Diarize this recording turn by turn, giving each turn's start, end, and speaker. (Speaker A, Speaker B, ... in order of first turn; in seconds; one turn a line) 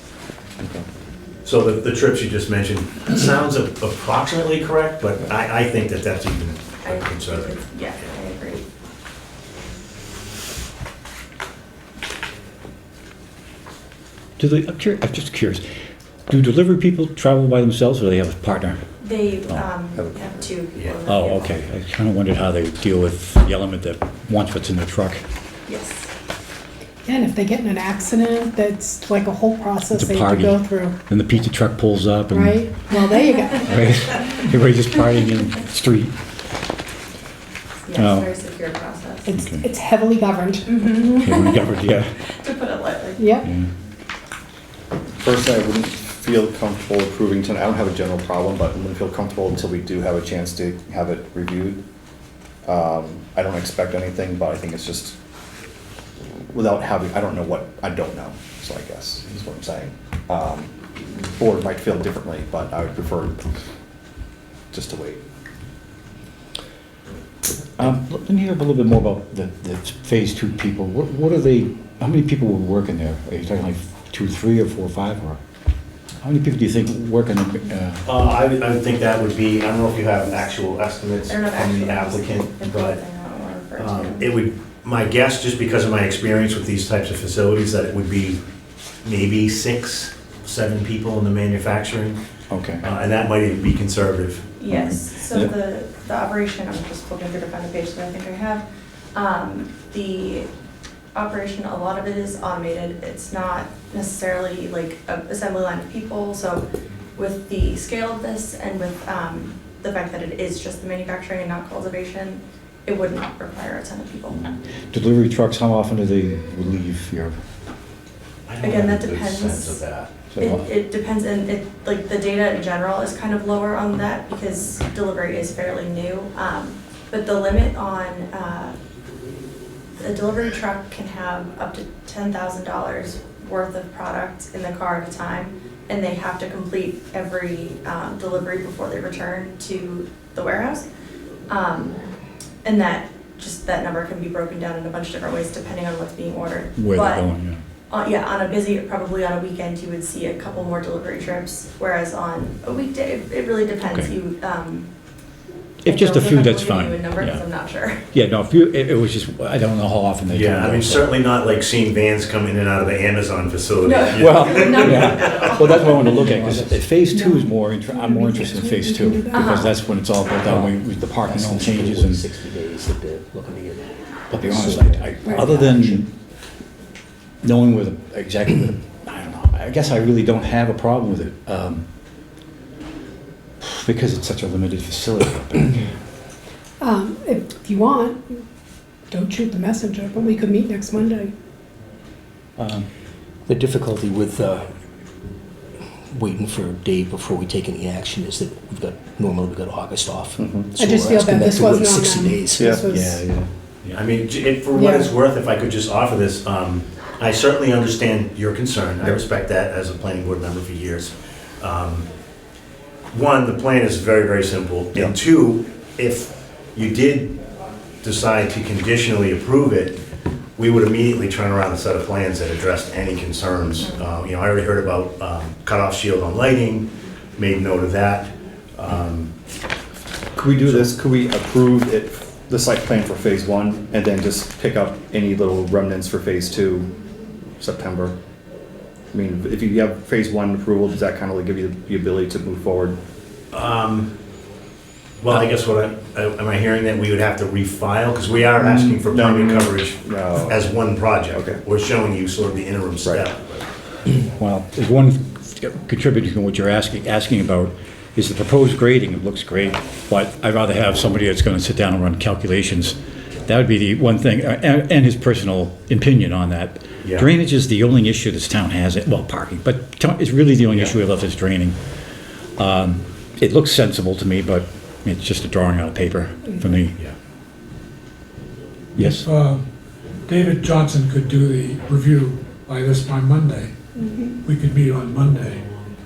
Speaker A: 0.6-0.8
Speaker B: 1.4-7.5
Speaker C: 6.8-8.7
Speaker D: 14.4-15.6
Speaker D: 16.3-18.8
Speaker C: 19.0-21.5
Speaker D: 21.1-25.2
Speaker C: 25.7-26.1
Speaker E: 27.1-31.0
Speaker D: 29.9-33.1
Speaker E: 32.3-33.8
Speaker D: 33.6-36.1
Speaker C: 37.9-39.4
Speaker D: 37.9-38.3
Speaker E: 39.3-40.9
Speaker D: 39.4-39.6
Speaker C: 40.7-43.4
Speaker D: 41.2-42.1
Speaker E: 43.2-43.5
Speaker A: 45.2-51.8
Speaker A: 52.6-55.2
Speaker A: 56.5-63.5
Speaker A: 64.7-65.2
Speaker D: 67.8-75.4
Speaker D: 76.2-78.0
Speaker B: 78.1-83.0
Speaker C: 81.3-84.3
Speaker B: 83.8-88.4
Speaker B: 89.0-92.2
Speaker D: 92.5-92.8
Speaker B: 92.8-94.5
Speaker C: 94.6-98.6
Speaker D: 94.7-95.5
Speaker C: 99.2-100.5
Speaker C: 101.2-106.7
Speaker C: 107.2-114.5
Speaker D: 114.9-117.3
Speaker B: 118.5-120.1
Speaker C: 118.6-119.8
Speaker D: 120.3-120.7
Speaker C: 120.4-128.8
Speaker C: 130.0-140.9
Speaker C: 141.5-142.0
Speaker C: 142.6-147.3
Speaker D: 146.8-147.6
Speaker C: 147.9-154.9
Speaker D: 153.9-154.2
Speaker D: 155.8-157.4
Speaker C: 155.9-158.0
Speaker D: 158.1-161.1
Speaker B: 160.3-165.9
Speaker C: 163.8-166.2
Speaker D: 164.2-172.2
Speaker F: 165.9-166.9
Speaker E: 167.0-169.7
Speaker C: 169.3-169.8
Speaker F: 170.4-176.0
Speaker D: 174.3-176.1
Speaker D: 177.4-181.8
Speaker D: 183.6-185.9
Speaker E: 186.8-188.4
Speaker E: 189.1-191.3
Speaker D: 192.6-192.8
Speaker F: 193.5-194.7
Speaker F: 195.8-203.3
Speaker A: 200.4-200.7
Speaker E: 200.8-203.2
Speaker A: 202.6-202.8
Speaker D: 203.0-203.5
Speaker B: 203.9-212.1
Speaker E: 204.7-205.1
Speaker B: 213.1-217.4
Speaker B: 218.0-220.0
Speaker B: 220.6-229.3
Speaker A: 230.4-236.9
Speaker B: 230.6-230.9
Speaker A: 237.6-238.2
Speaker A: 239.1-243.0
Speaker B: 243.5-244.1
Speaker B: 245.2-253.6
Speaker A: 248.6-250.7
Speaker A: 251.3-251.6
Speaker D: 254.4-271.8
Speaker B: 267.0-267.3
Speaker D: 272.6-276.9
Speaker D: 279.0-279.3
Speaker G: 279.0-279.6
Speaker G: 280.3-283.7
Speaker E: 284.0-284.4
Speaker G: 284.4-285.6